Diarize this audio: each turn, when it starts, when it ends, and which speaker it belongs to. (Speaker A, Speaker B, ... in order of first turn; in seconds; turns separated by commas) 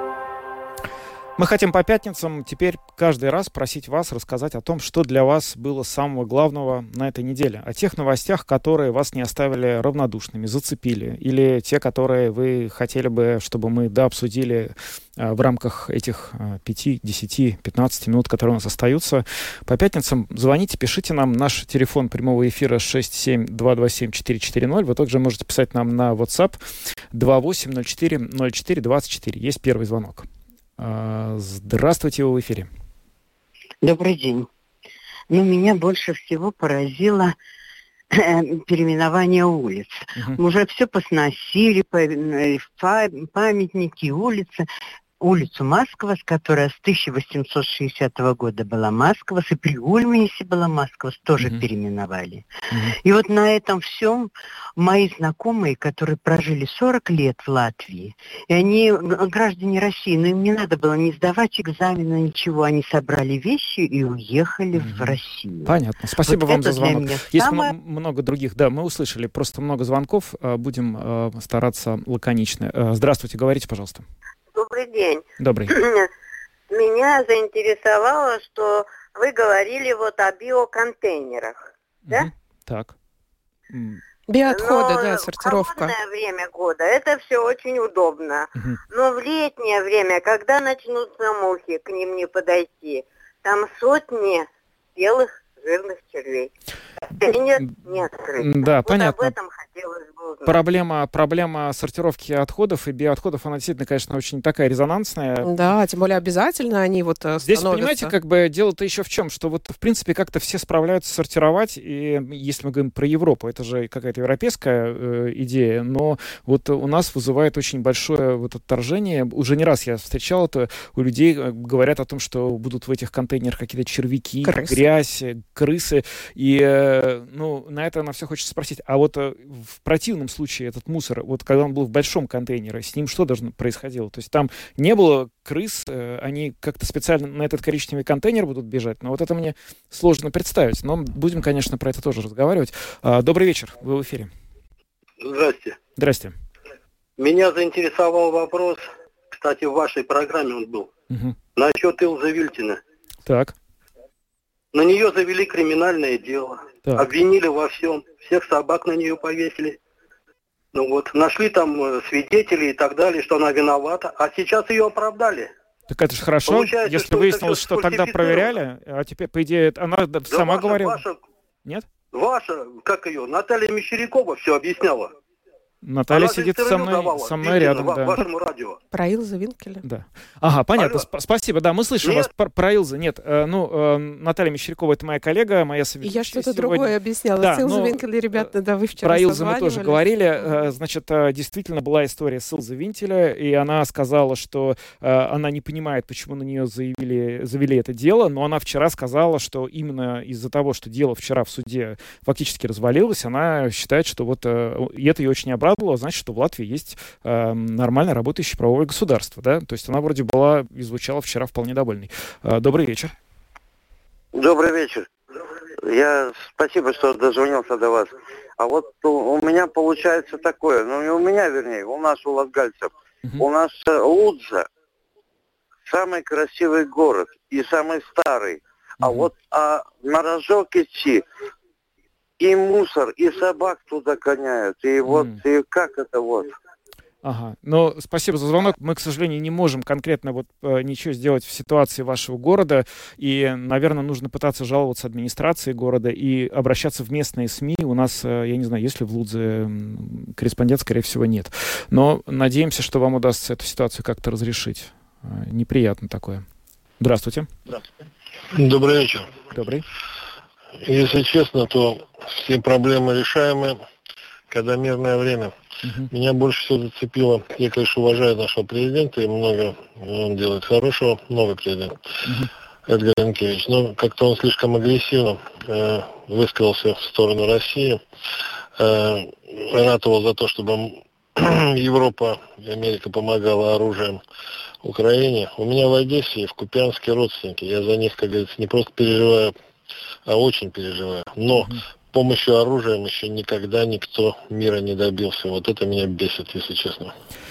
Speaker A: 1.4-26.6, Speaker A: 27.1-32.7, Speaker B: 33.8-34.5, Speaker B: 35.3-37.4, Speaker B: 38.1-44.6, Speaker B: 45.2-67.7, Speaker A: 64.8-74.0, Speaker C: 74.5-76.1, Speaker A: 75.4-75.8, Speaker C: 76.7-82.3, Speaker A: 82.1-82.9, Speaker A: 83.7-84.0, Speaker D: 84.3-85.9, Speaker C: 84.5-96.5, Speaker C: 97.2-100.5, Speaker A: 98.4-99.3, Speaker A: 100.4-105.7, Speaker D: 105.4-108.1, Speaker A: 107.4-144.3, Speaker D: 124.4-124.8, Speaker E: 145.2-145.8, Speaker A: 146.0-146.4, Speaker E: 147.2-150.9, Speaker A: 151.1-151.4, Speaker E: 151.6-152.8, Speaker A: 153.2-153.5, Speaker E: 154.7-159.8, Speaker E: 160.7-165.5, Speaker A: 165.9-171.0, Speaker E: 166.5-168.6, Speaker E: 170.3-171.2, Speaker E: 172.1-175.1, Speaker A: 175.8-178.2, Speaker E: 176.1-178.8, Speaker D: 178.9-179.8, Speaker A: 179.8-188.5, Speaker E: 180.8-181.1, Speaker E: 182.0-182.3, Speaker D: 186.0-190.0, Speaker A: 189.0-213.1, Speaker F: 214.3-215.1, Speaker F: 215.8-224.7, Speaker F: 225.9-231.2, Speaker A: 229.0-229.3, Speaker F: 232.4-236.5, Speaker A: 235.1-235.4, Speaker A: 237.2-256.4, Speaker A: 257.0-257.5, Speaker G: 258.5-259.3, Speaker A: 259.5-259.9, Speaker G: 260.8-263.8, Speaker G: 264.5-265.5, Speaker A: 265.9-266.1, Speaker G: 266.1-272.0, Speaker G: 272.9-278.0, Speaker G: 278.8-284.2, Speaker G: 284.8-289.5, Speaker G: 290.3-297.1